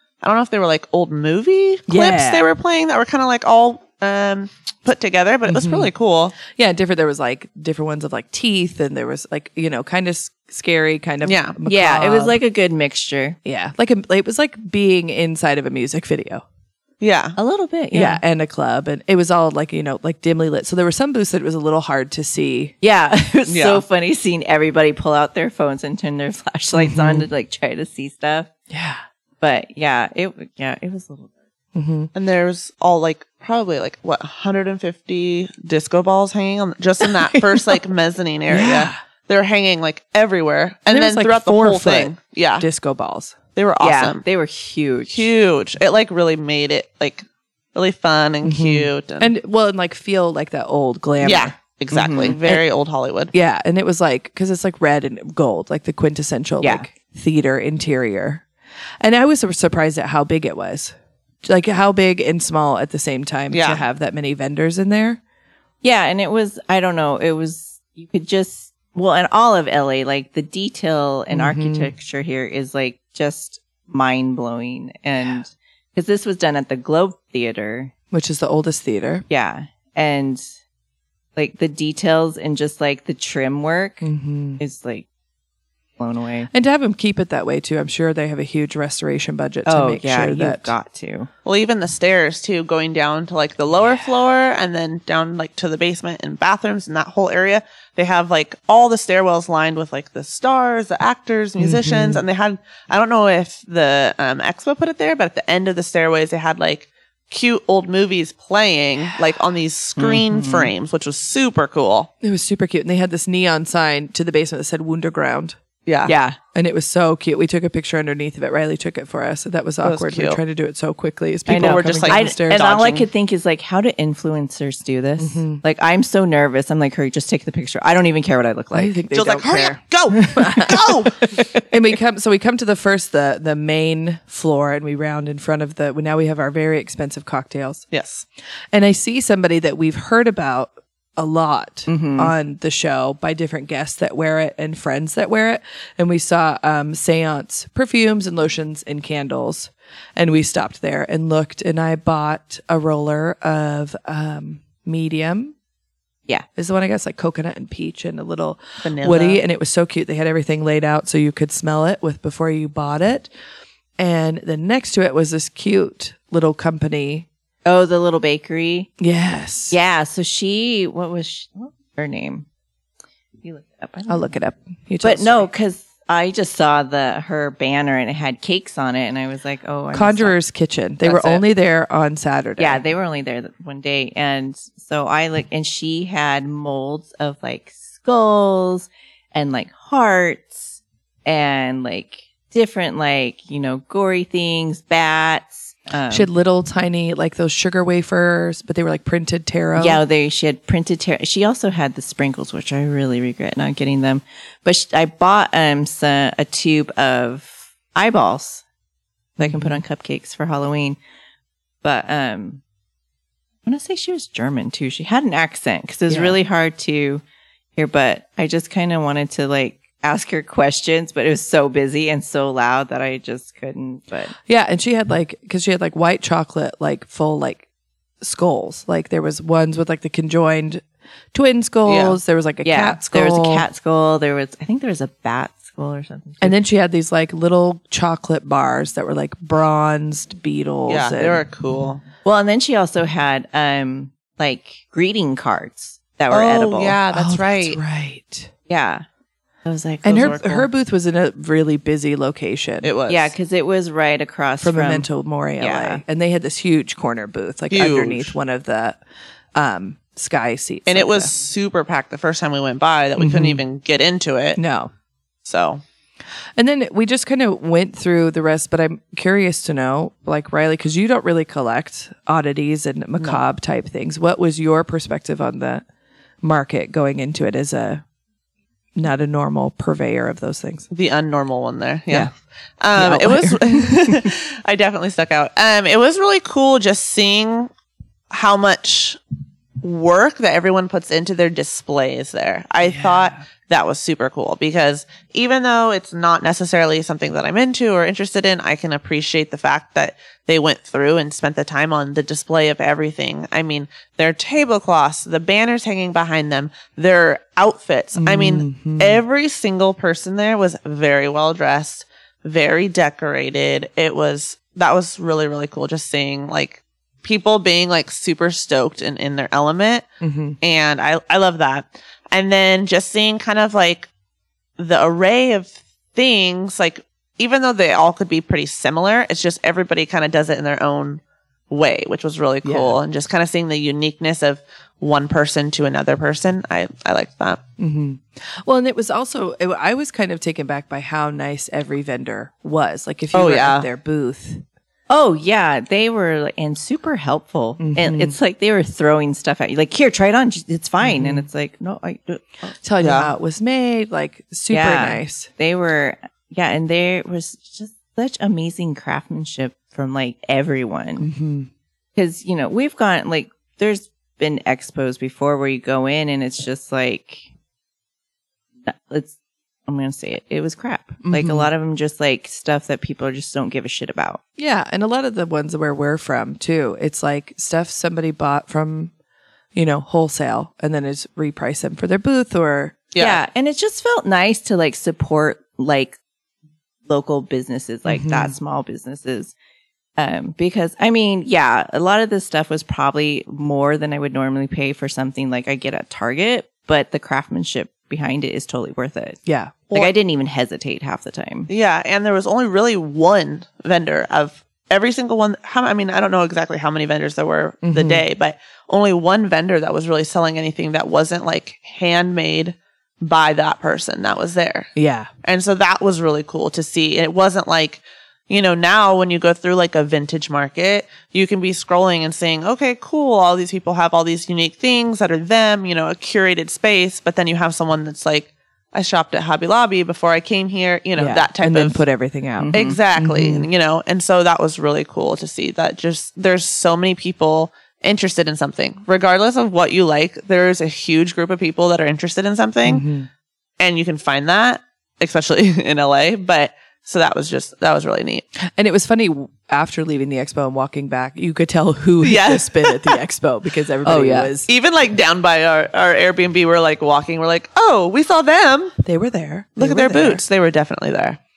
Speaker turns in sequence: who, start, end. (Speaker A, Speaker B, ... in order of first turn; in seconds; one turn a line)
Speaker A: 0.2-6.4
Speaker B: 1.9-2.5
Speaker B: 5.5-5.9
Speaker B: 6.5-12.4
Speaker A: 11.2-11.6
Speaker C: 11.7-13.4
Speaker B: 13.4-16.4
Speaker A: 17.0-17.4
Speaker C: 17.4-18.2
Speaker B: 17.9-22.8
Speaker C: 22.8-28.5
Speaker A: 23.5-23.8
Speaker B: 26.7-27.3
Speaker B: 28.7-29.0
Speaker C: 29.4-31.3
Speaker B: 31.8-32.1
Speaker A: 32.1-42.6
Speaker B: 38.5-39.0
Speaker B: 40.9-43.4
Speaker A: 43.6-44.2
Speaker C: 43.8-45.3
Speaker A: 45.1-47.2
Speaker A: 47.8-49.3
Speaker B: 48.4-51.5
Speaker A: 51.2-53.3
Speaker C: 51.9-52.4
Speaker B: 52.2-52.6
Speaker B: 53.3-58.5
Speaker C: 56.6-56.9
Speaker B: 59.0-65.2
Speaker A: 63.5-63.8
Speaker C: 65.8-77.9
Speaker B: 71.3-71.9
Speaker B: 78.1-79.2
Speaker C: 79.3-80.4
Speaker C: 81.4-85.1
Speaker B: 84.0-84.6
Speaker C: 86.0-86.5
Speaker B: 86.5-90.7
Speaker C: 89.7-91.3
Speaker A: 91.5-112.1
Speaker B: 101.6-102.2
Speaker C: 110.0-110.7
Speaker B: 112.2-115.6
Speaker A: 115.9-116.1
Speaker C: 116.0-116.4
Speaker B: 116.5-122.7
Speaker A: 119.8-120.4
Speaker A: 121.5-123.1
Speaker C: 121.5-129.1
Speaker B: 125.2-125.6
Speaker B: 128.7-129.8
Speaker A: 129.1-131.3
Speaker B: 130.3-130.9
Speaker B: 131.7-137.8
Speaker A: 137.9-138.2
Speaker B: 138.7-155.5
Speaker C: 141.9-142.3
Speaker B: 156.6-163.3
Speaker A: 158.8-159.4
Speaker B: 164.0-167.3
Speaker C: 167.7-168.9
Speaker B: 169.0-169.8
Speaker C: 169.7-172.5
Speaker C: 173.4-174.3
Speaker B: 174.1-175.5
Speaker C: 175.0-180.4
Speaker B: 179.9-182.8
Speaker C: 181.0-181.5
Speaker C: 182.6-196.3
Speaker B: 196.1-200.0
Speaker C: 199.8-208.6
Speaker C: 209.4-211.0
Speaker B: 209.4-209.8
Speaker C: 211.8-212.6
Speaker C: 213.7-217.2
Speaker B: 216.1-216.4
Speaker C: 217.8-224.3
Speaker B: 224.5-227.7
Speaker B: 228.2-233.7
Speaker A: 231.9-232.2
Speaker C: 232.7-236.6
Speaker B: 236.4-241.4
Speaker A: 240.9-242.0
Speaker C: 242.2-247.0
Speaker A: 246.3-247.8
Speaker B: 247.1-248.5
Speaker C: 248.7-249.0
Speaker C: 249.7-250.6
Speaker B: 250.0-252.9
Speaker A: 250.1-250.5
Speaker A: 252.8-253.3
Speaker C: 253.1-255.1
Speaker B: 254.6-259.0
Speaker C: 255.6-256.0
Speaker A: 257.7-258.3
Speaker B: 259.6-261.3
Speaker A: 260.9-264.6
Speaker B: 263.2-263.6
Speaker B: 264.6-264.9
Speaker A: 265.4-265.8
Speaker B: 266.6-275.8
Speaker B: 276.4-278.0
Speaker B: 279.0-280.9
Speaker A: 280.9-287.7
Speaker B: 282.9-284.3
Speaker A: 288.3-289.2
Speaker A: 289.8-320.1
Speaker B: 292.8-293.4
Speaker B: 308.1-309.2
Speaker B: 320.2-320.6
Speaker A: 320.6-324.1
Speaker A: 324.8-337.6
Speaker B: 332.6-333.0
Speaker B: 337.8-344.6
Speaker A: 343.3-343.9
Speaker C: 345.1-352.5
Speaker B: 347.8-348.4
Speaker B: 351.0-351.5
Speaker B: 352.8-355.5
Speaker A: 353.0-353.3
Speaker C: 354.7-361.3
Speaker B: 361.2-361.7
Speaker C: 362.2-367.5
Speaker C: 368.9-369.4
Speaker C: 369.9-374.4
Speaker B: 371.2-371.7
Speaker B: 374.6-379.1
Speaker B: 379.8-383.1
Speaker A: 383.1-383.4
Speaker C: 383.2-386.2
Speaker C: 387.1-389.5
Speaker B: 388.1-388.6
Speaker C: 390.2-399.4
Speaker B: 399.4-399.8
Speaker C: 399.9-401.7
Speaker A: 401.7-414.9
Speaker B: 407.8-408.2
Speaker B: 415.0-415.3
Speaker A: 415.4-432.0
Speaker B: 431.2-433.7
Speaker C: 432.6-433.0
Speaker A: 432.7-443.1
Speaker B: 442.9-443.3
Speaker A: 443.8-448.4
Speaker B: 448.8-454.7
Speaker A: 452.2-453.2
Speaker C: 454.1-454.5
Speaker A: 454.7-459.0
Speaker B: 459.0-460.4
Speaker A: 459.8-461.4